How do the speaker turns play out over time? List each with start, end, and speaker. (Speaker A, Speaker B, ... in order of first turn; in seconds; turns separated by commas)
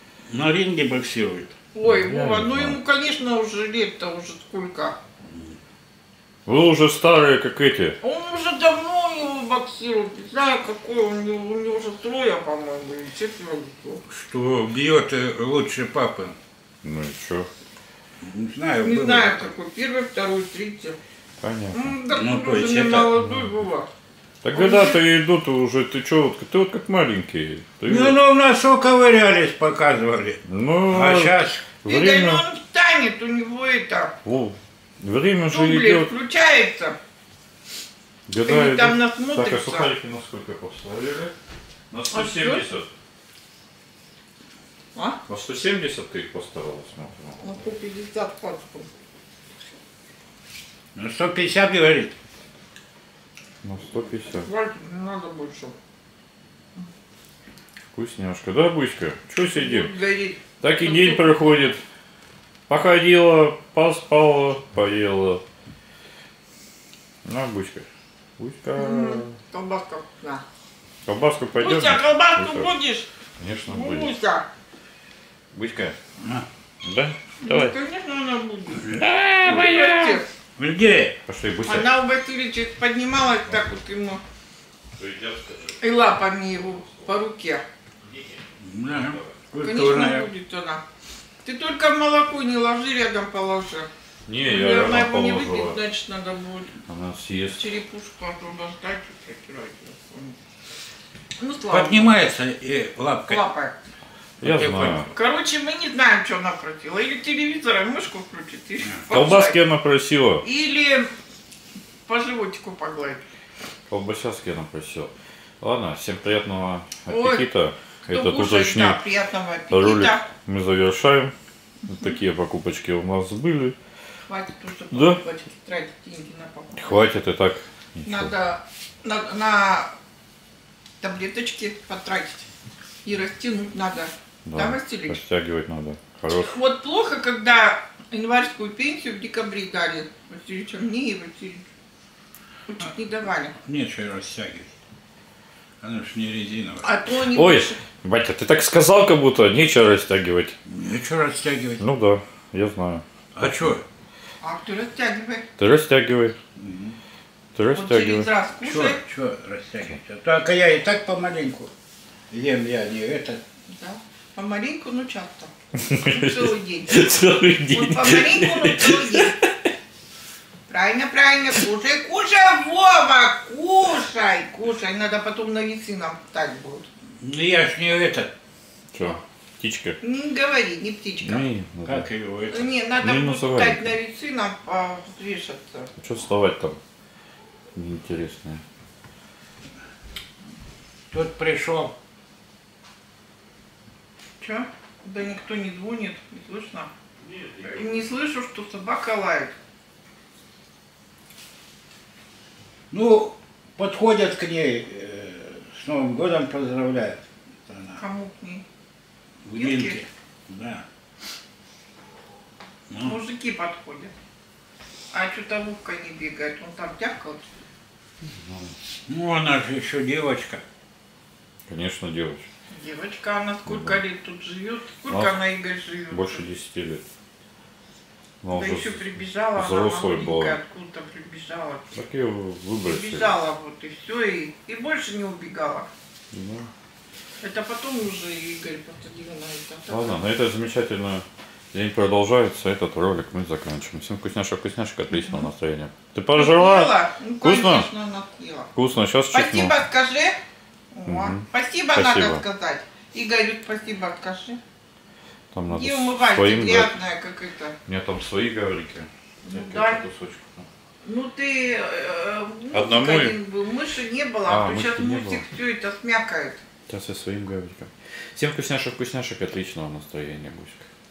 Speaker A: 0.3-1.5, Speaker B: 1.7-5.0, Speaker C: 1.8-2.8, Speaker C: 6.5-8.0, Speaker B: 8.0-14.0, Speaker A: 14.1-16.4, Speaker C: 16.8-17.5, Speaker A: 18.2-19.5, Speaker B: 18.8-21.0, Speaker C: 21.4-21.9, Speaker B: 21.7-23.9, Speaker A: 22.1-23.1, Speaker C: 23.2-23.5, Speaker C: 24.4-28.1, Speaker B: 24.5-25.0, Speaker A: 27.9-31.6, Speaker C: 30.4-32.4, Speaker B: 31.9-34.1, Speaker C: 34.2-36.1, Speaker B: 35.5-37.0, Speaker C: 38.3-41.3, Speaker B: 38.4-39.9, Speaker C: 41.9-42.9, Speaker B: 42.1-42.6, Speaker C: 45.3-47.4, Speaker B: 47.4-48.9, Speaker A: 50.9-52.1, Speaker C: 53.6-54.5, Speaker B: 54.4-55.7, Speaker C: 57.9-59.9, Speaker B: 59.5-61.4, Speaker C: 60.6-61.8, Speaker C: 62.7-65.4, Speaker C: 67.2-67.8, Speaker C: 68.4-69.3, Speaker B: 68.8-70.4, Speaker C: 71.0-72.7, Speaker B: 71.6-73.1, Speaker C: 73.4-74.1, Speaker B: 73.7-74.5, Speaker C: 75.5-76.0, Speaker A: 76.2-76.5, Speaker C: 76.8-77.7, Speaker B: 77.4-80.2, Speaker A: 78.8-81.2, Speaker C: 81.3-81.9, Speaker B: 81.7-84.2, Speaker C: 85.0-87.1, Speaker B: 85.8-87.6, Speaker C: 88.1-89.4, Speaker A: 88.6-90.3, Speaker B: 89.6-90.8, Speaker B: 91.4-93.9, Speaker C: 94.3-95.8, Speaker B: 94.4-96.8, Speaker C: 96.9-97.6, Speaker B: 97.5-100.4, Speaker B: 101.4-102.2, Speaker A: 101.7-103.4, Speaker B: 103.2-103.8, Speaker A: 104.4-105.1, Speaker C: 104.4-105.1, Speaker B: 105.0-109.6, Speaker C: 109.1-110.4, Speaker B: 110.4-111.1, Speaker B: 112.1-113.2, Speaker C: 113.9-119.0, Speaker B: 117.1-117.5, Speaker B: 118.1-120.2, Speaker C: 119.7-121.3, Speaker C: 121.9-123.8, Speaker B: 124.3-127.0, Speaker C: 124.9-125.2, Speaker C: 126.8-128.3, Speaker B: 128.1-129.9, Speaker B: 131.0-132.5, Speaker B: 133.0-135.2, Speaker C: 134.4-136.6, Speaker B: 136.3-141.6, Speaker B: 142.7-143.5, Speaker A: 143.6-144.7, Speaker A: 145.8-146.9, Speaker B: 146.8-147.8, Speaker C: 147.1-150.6, Speaker A: 150.6-151.8, Speaker C: 151.8-153.0, Speaker A: 153.3-153.8, Speaker B: 154.4-155.4, Speaker C: 155.6-156.4, Speaker A: 156.6-157.0, Speaker C: 157.5-158.3, Speaker B: 157.7-159.0, Speaker A: 158.6-161.7, Speaker A: 162.3-163.4, Speaker B: 163.7-167.1, Speaker C: 165.8-169.5, Speaker B: 167.7-169.4, Speaker B: 170.7-176.9, Speaker A: 177.2-178.3, Speaker C: 178.9-180.0, Speaker B: 180.0-181.5, Speaker C: 181.2-182.1, Speaker A: 181.8-182.7, Speaker B: 182.5-185.9, Speaker C: 183.0-183.9, Speaker C: 186.0-186.8, Speaker C: 187.7-188.6, Speaker A: 191.1-191.9, Speaker B: 194.4-196.9, Speaker C: 197.2-198.0, Speaker B: 197.7-199.5, Speaker A: 202.9-208.0, Speaker B: 208.0-208.6, Speaker A: 209.4-210.8, Speaker B: 209.6-210.0, Speaker A: 212.9-213.2, Speaker B: 213.0-214.1, Speaker B: 215.1-217.4, Speaker C: 218.2-218.7, Speaker A: 219.1-220.6, Speaker C: 221.7-222.5, Speaker B: 222.7-226.4, Speaker C: 223.7-224.0, Speaker C: 225.1-225.4, Speaker C: 226.1-227.0, Speaker C: 228.4-230.6, Speaker B: 228.5-231.9, Speaker C: 231.9-233.3, Speaker B: 232.8-235.9, Speaker C: 236.3-236.7, Speaker B: 237.4-240.2, Speaker C: 239.9-247.9, Speaker B: 245.1-245.5, Speaker B: 246.3-248.7, Speaker C: 248.7-249.7, Speaker B: 249.3-250.4, Speaker B: 250.9-254.6, Speaker C: 251.1-252.4, Speaker C: 255.5-256.9, Speaker B: 255.7-257.7, Speaker C: 257.9-260.7, Speaker B: 259.4-260.0, Speaker B: 261.0-266.6, Speaker C: 262.7-263.4, Speaker C: 264.5-265.4, Speaker C: 266.9-270.9